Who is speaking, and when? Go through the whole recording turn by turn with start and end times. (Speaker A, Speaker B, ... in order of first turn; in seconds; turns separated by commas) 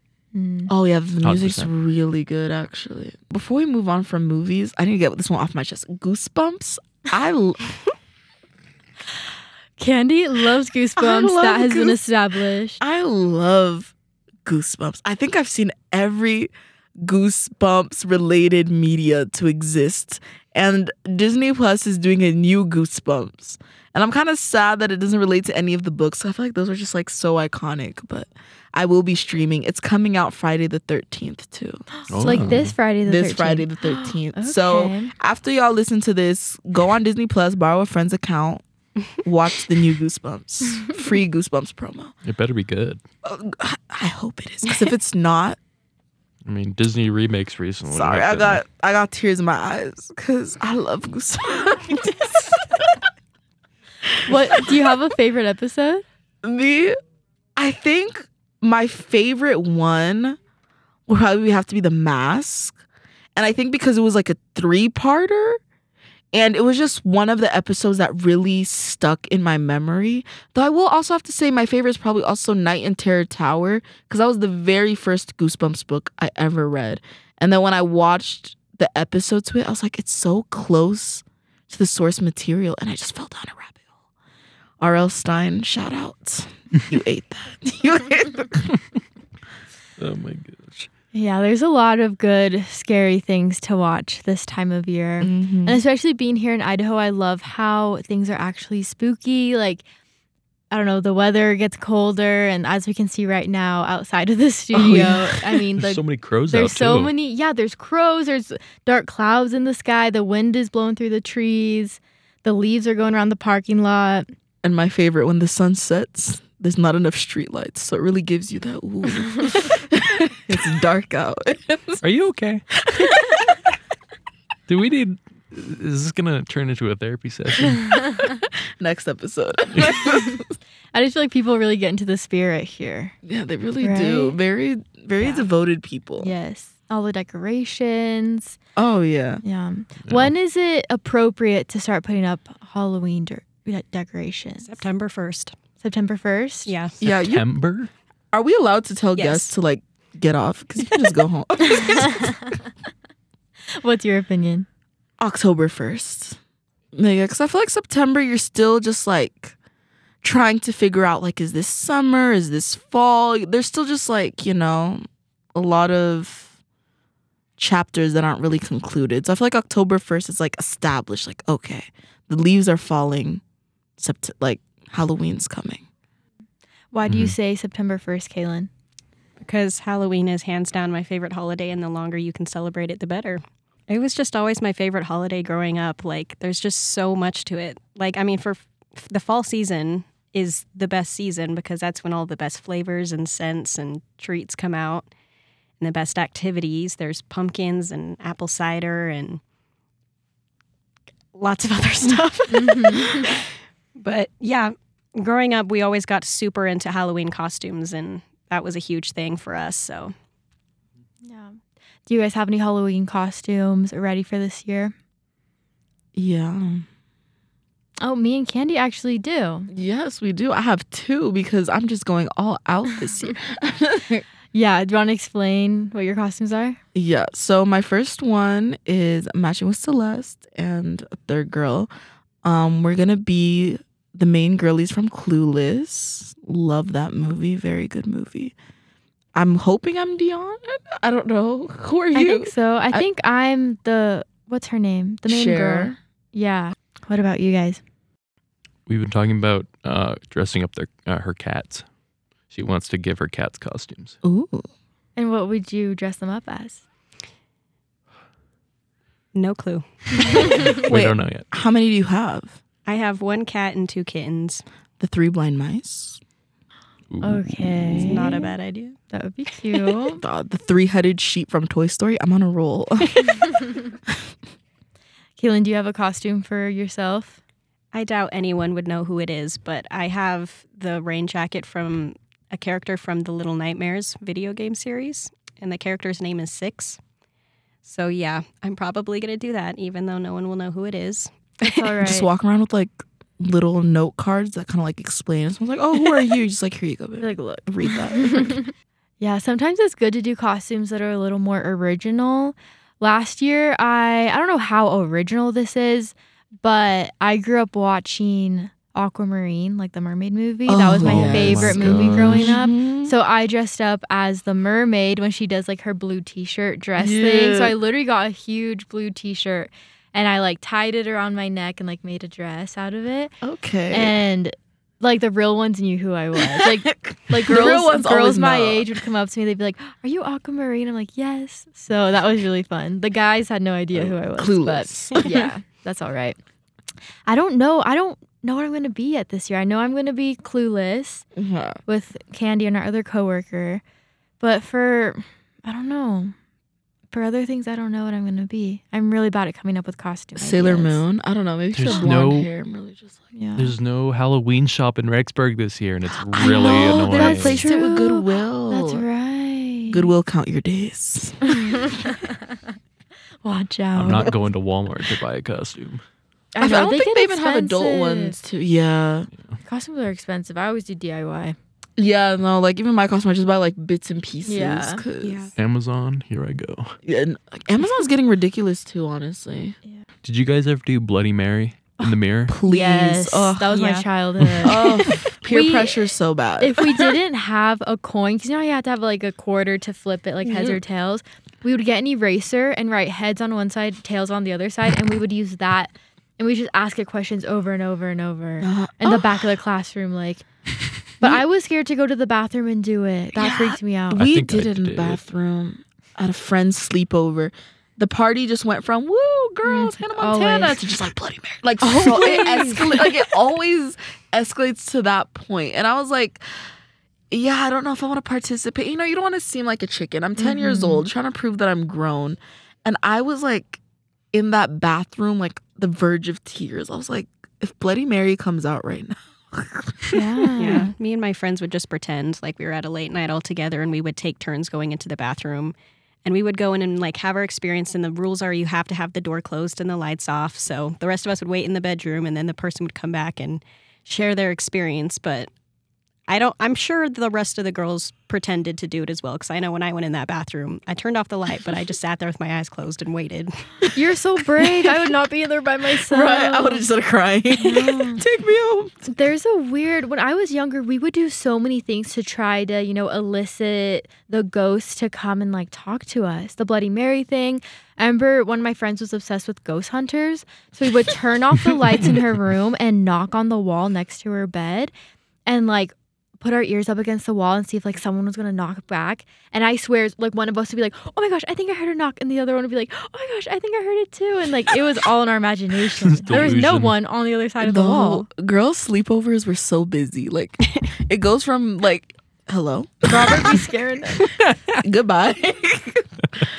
Speaker A: 0.3-0.7, Speaker B: 0.7-7.7, Speaker C: 1.2-1.7, Speaker A: 9.8-12.8, Speaker B: 11.0-12.0, Speaker B: 12.8-13.9, Speaker B: 14.4-38.6, Speaker A: 32.0-35.1, Speaker C: 32.1-32.7, Speaker B: 39.1-42.1, Speaker C: 42.2-43.0, Speaker B: 43.2-45.6, Speaker C: 46.4-48.6, Speaker B: 47.9-53.0, Speaker B: 54.1-54.9, Speaker A: 54.2-56.0, Speaker B: 56.4-57.0, Speaker B: 57.5-60.4, Speaker B: 61.1-62.8, Speaker B: 63.4-65.6, Speaker B: 66.3-83.8, Speaker B: 84.8-88.7, Speaker C: 90.0-90.9, Speaker A: 91.1-99.8, Speaker B: 95.2-95.8, Speaker A: 100.7-114.3, Speaker B: 104.7-105.7, Speaker C: 105.8-107.1, Speaker B: 114.6-122.0, Speaker C: 122.0-122.6, Speaker B: 122.8-123.4, Speaker C: 124.7-128.1, Speaker B: 128.2-130.5, Speaker A: 130.1-130.3, Speaker A: 130.9-133.1, Speaker B: 133.2-136.3, Speaker A: 133.8-134.3, Speaker A: 136.2-138.6, Speaker B: 138.8-139.4, Speaker A: 139.4-144.8, Speaker C: 140.1-140.3, Speaker D: 144.6-145.5, Speaker A: 145.8-146.7, Speaker D: 146.7-146.9, Speaker B: 147.0-147.4, Speaker C: 147.0-147.9, Speaker B: 148.3-152.4, Speaker D: 149.2-149.5, Speaker A: 151.7-152.3, Speaker A: 153.7-154.7, Speaker B: 155.2-156.4, Speaker B: 156.9-159.5, Speaker B: 160.2-165.0, Speaker B: 165.5-166.5, Speaker B: 167.6-173.4, Speaker B: 174.0-175.8, Speaker A: 176.9-178.7, Speaker C: 177.1-177.3, Speaker D: 179.4-195.1, Speaker D: 195.8-199.4, Speaker D: 201.3-210.1, Speaker A: 202.5-203.3, Speaker A: 211.2-214.9, Speaker B: 216.1-216.8, Speaker A: 218.0-219.7, Speaker B: 219.7-224.2, Speaker A: 224.5-226.8, Speaker B: 226.9-231.9, Speaker B: 232.4-238.5, Speaker B: 239.3-243.0, Speaker A: 242.1-247.8, Speaker B: 245.3-246.0, Speaker C: 248.9-251.8, Speaker C: 252.5-254.2, Speaker B: 254.2-254.7, Speaker A: 255.2-256.8, Speaker D: 259.3-260.6, Speaker A: 260.3-260.6, Speaker C: 260.4-261.5, Speaker B: 260.9-262.6, Speaker D: 262.9-264.6, Speaker B: 265.0-266.2, Speaker C: 267.1-268.1, Speaker A: 267.2-268.5, Speaker D: 268.0-269.0, Speaker A: 269.1-270.2, Speaker B: 270.2-274.2, Speaker A: 275.4-277.4, Speaker D: 277.9-287.0, Speaker D: 287.8-291.9, Speaker A: 291.6-292.3, Speaker B: 292.0-298.6, Speaker A: 297.2-323.3, Speaker B: 310.7-313.1, Speaker C: 311.0-312.5, Speaker B: 317.0-317.8, Speaker B: 323.4-324.1, Speaker A: 323.9-336.4, Speaker B: 326.4-329.0, Speaker B: 333.9-335.5, Speaker A: 337.2-341.2, Speaker B: 341.4-341.8, Speaker A: 341.9-343.8, Speaker A: 344.4-346.3, Speaker A: 347.1-351.0, Speaker B: 350.4-353.2, Speaker C: 351.7-352.5, Speaker A: 353.3-353.7, Speaker C: 353.6-357.6, Speaker B: 356.3-359.0, Speaker A: 356.4-360.1, Speaker B: 359.9-361.4, Speaker A: 361.6-362.1, Speaker A: 363.4-364.4, Speaker C: 363.9-366.0, Speaker A: 366.5-368.4, Speaker B: 366.6-369.3, Speaker A: 369.6-371.6, Speaker B: 372.0-375.5, Speaker A: 374.4-375.0, Speaker D: 375.2-375.5, Speaker C: 375.6-376.9, Speaker B: 377.0-379.8, Speaker C: 380.2-382.6, Speaker B: 382.5-383.8, Speaker A: 382.6-400.4, Speaker D: 383.7-384.0, Speaker B: 384.6-387.1, Speaker B: 390.5-390.8, Speaker B: 398.6-399.4, Speaker A: 401.2-404.2, Speaker B: 403.3-416.4, Speaker C: 404.1-405.2, Speaker A: 409.6-410.8, Speaker A: 411.8-413.2, Speaker B: 417.3-423.8, Speaker A: 420.4-421.1, Speaker B: 424.3-430.8, Speaker A: 430.1-430.9, Speaker D: 430.6-445.5, Speaker D: 446.3-453.5, Speaker A: 453.9-456.8, Speaker B: 454.6-455.1, Speaker B: 456.0-459.1, Speaker A: 457.5-458.2, Speaker A: 459.1-474.9, Speaker A: 475.4-488.3, Speaker C: 486.1-486.9, Speaker B: 487.6-493.6, Speaker A: 493.0-494.3, Speaker B: 494.8-496.1